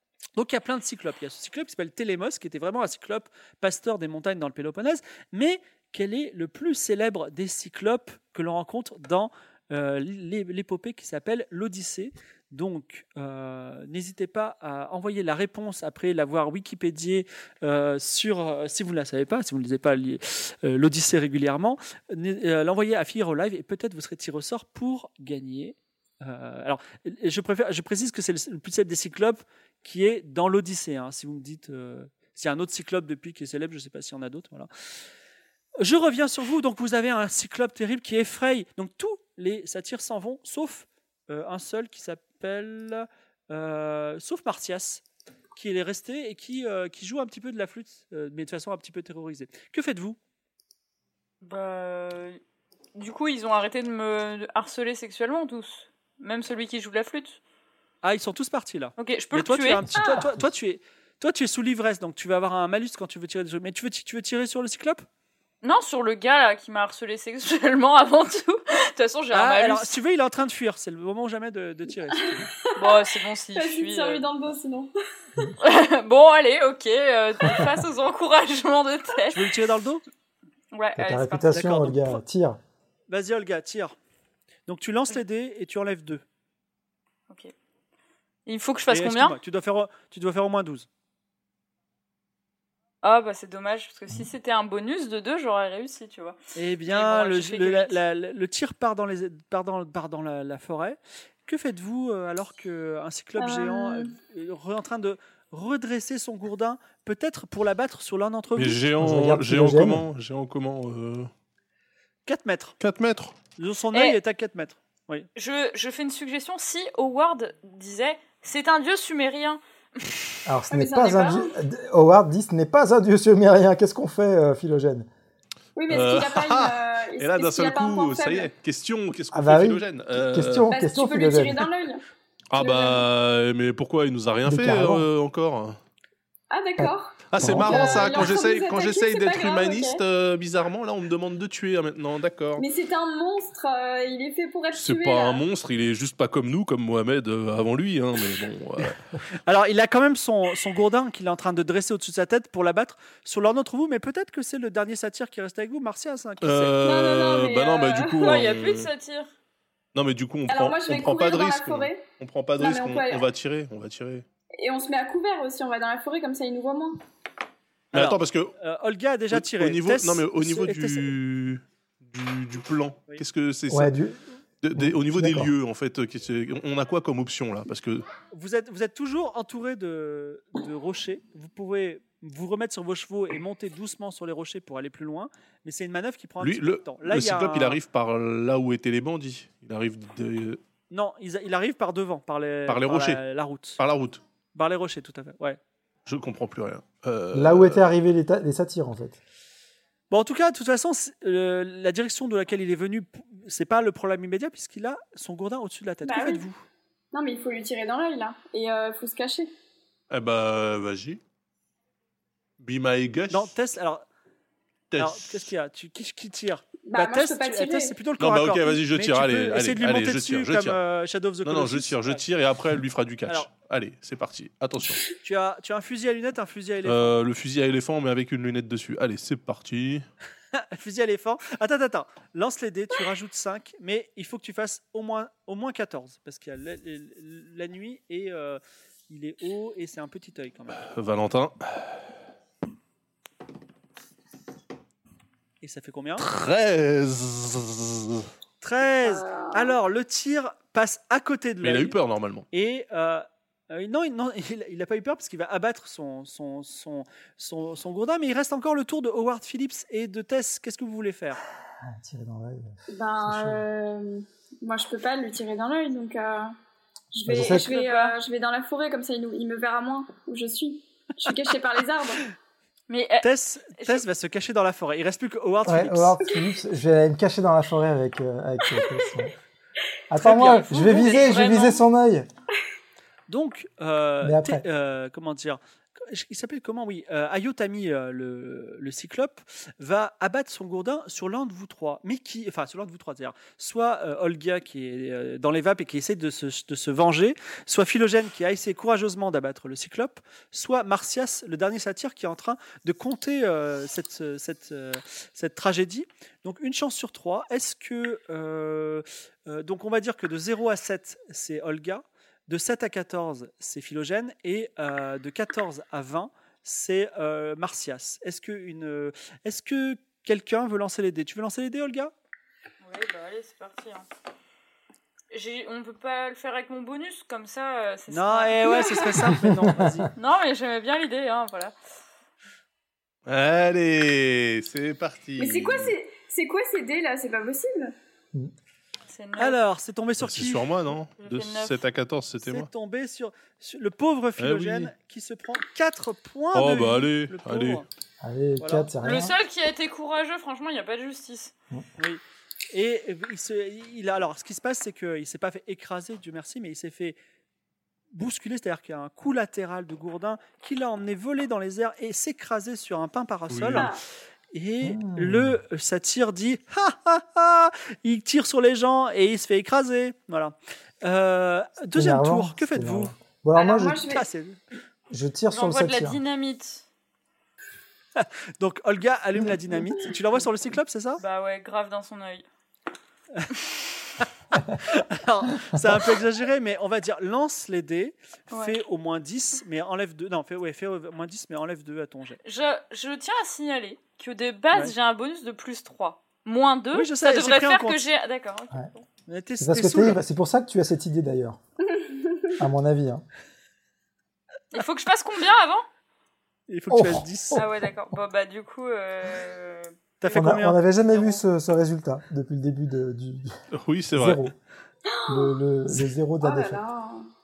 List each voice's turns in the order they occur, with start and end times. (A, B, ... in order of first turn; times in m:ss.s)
0:00.4-0:34.7 A
0:35.8-0:45.0 A
0:45.6-0:50.2 A
0:51.4-0:52.4 B
0:52.9-0:57.4 B
0:58.0-1:05.0 A
0:59.0-0:59.9 B
0:59.9-1:00.4 C
1:05.6-1:10.0 B
1:09.3-1:12.5 A
1:12.4-1:13.0 D
1:12.8-1:14.2 B
1:13.5-1:15.5 D
1:15.6-1:19.5 B
1:19.3-1:20.0 A
1:20.7-1:21.5 B
1:21.0-1:22.6 C
1:21.5-1:22.2 A
1:23.1-1:24.0 A
1:24.7-1:26.2 A
1:28.4-1:29.4 B
1:28.9-1:30.9 A
1:33.0-1:38.0 B
1:36.6-1:48.8 A
1:43.4-1:44.1 D
1:48.5-1:51.3 E
1:49.0-1:50.0 C
1:52.2-1:52.8 A
1:52.8-1:53.4 E
1:53.6-1:55.3 A
1:55.3-1:59.6 B
2:00.4-2:05.1 C
2:00.7-2:01.5 D
2:05.8-2:08.5 D
2:05.9-2:10.7 E
2:09.3-2:11.7 C
2:10.7-2:12.0 D
2:12.5-2:15.8 E
2:12.6-2:13.0 D
2:14.4-2:15.0 C
2:16.5-2:20.0 D
2:16.8-2:18.2 C
2:17.3-2:22.6 E
2:22.6-2:25.4 D
2:24.7-2:29.0 E
2:29.4-2:36.8 A
2:36.4-2:38.9 E
2:36.8-2:38.3 D
2:38.2-2:39.3 B
2:39.9-2:44.2 E
2:40.5-2:42.1 D
2:42.6-2:43.2 D
2:44.6-2:47.0 D
2:47.9-2:48.5 E
2:47.9-2:51.1 A
2:49.3-2:53.9 E
2:53.7-2:54.2 C
2:54.6-2:58.1 E
2:54.7-2:55.5 C
2:58.3-3:07.8 A
3:06.4-3:10.6 E
3:10.9-3:13.8 A
3:12.7-3:13.2 E
3:13.8-3:14.2 E
3:14.5-3:15.6 A
3:16.1-3:17.8 E
3:17.3-3:19.2 C
3:20.1-3:26.6 A
3:26.0-3:26.4 D
3:27.1-3:29.5 D
3:30.1-3:31.2 E
3:32.6-3:33.5 E
3:33.3-3:34.0 A
3:34.9-3:35.3 E
3:35.0-3:42.2 A
3:36.8-3:37.9 D
3:38.2-3:40.8 E
3:41.4-3:45.0 E
3:45.0-3:47.2 A
3:46.8-3:50.0 E
3:50.5-4:00.8 A
4:00.8-4:02.0 E
4:05.6-4:06.2 A
4:06.2-4:08.3 E
4:08.6-4:12.0 A
4:09.0-4:09.8 D
4:11.6-4:12.4 E
4:12.5-4:21.4 A
4:21.8-4:23.6 C
4:22.9-4:26.5 D
4:27.1-4:32.3 D
4:27.2-4:27.7 C
4:27.5-4:28.1 B
4:32.9-4:34.0 B
4:33.2-4:36.2 A
4:35.6-4:39.3 C
4:40.1-4:42.3 C
4:40.2-4:40.7 A
4:40.3-4:41.8 B
4:43.3-5:22.1 A
4:44.2-4:44.6 C
5:22.8-5:24.1 B
5:25.3-5:29.0 B
5:28.1-5:30.1 A
5:28.6-5:29.2 D
5:29.4-5:30.1 C
5:30.1-5:31.7 B
5:33.3-5:35.9 E
5:35.4-5:37.9 D
5:39.1-5:39.6 B
5:39.4-5:40.7 A
5:40.2-5:42.7 E
5:41.2-5:41.8 B
5:42.4-5:47.8 A
5:44.4-5:44.9 E
5:46.5-5:47.8 E
5:48.2-5:49.4 C
5:48.6-5:48.9 A
5:49.0-5:51.5 B
5:52.0-5:57.2 A
5:58.1-6:04.0 A
6:03.5-6:03.9 E
6:03.7-6:04.0 D
6:04.5-6:13.1 A
6:04.8-6:05.6 C
6:11.9-6:14.1 C
6:13.5-6:14.2 D
6:14.1-6:14.6 A
6:15.1-6:16.2 C
6:15.5-6:16.8 B
6:18.2-6:21.2 A
6:21.2-6:22.4 B
6:24.9-6:32.4 A
6:32.4-6:39.0 B
6:36.9-6:38.0 A
6:39.3-6:40.2 A
6:39.6-6:41.6 C
6:42.0-6:42.5 D
6:42.6-6:43.2 C
6:44.7-6:45.8 B
6:46.7-6:47.6 A
6:46.9-6:47.6 C
6:47.5-6:49.9 B
6:50.2-6:50.8 A
6:50.3-6:53.5 C
6:53.7-6:54.4 E
6:54.2-6:54.5 C
6:55.1-6:57.3 D
6:55.3-6:56.8 C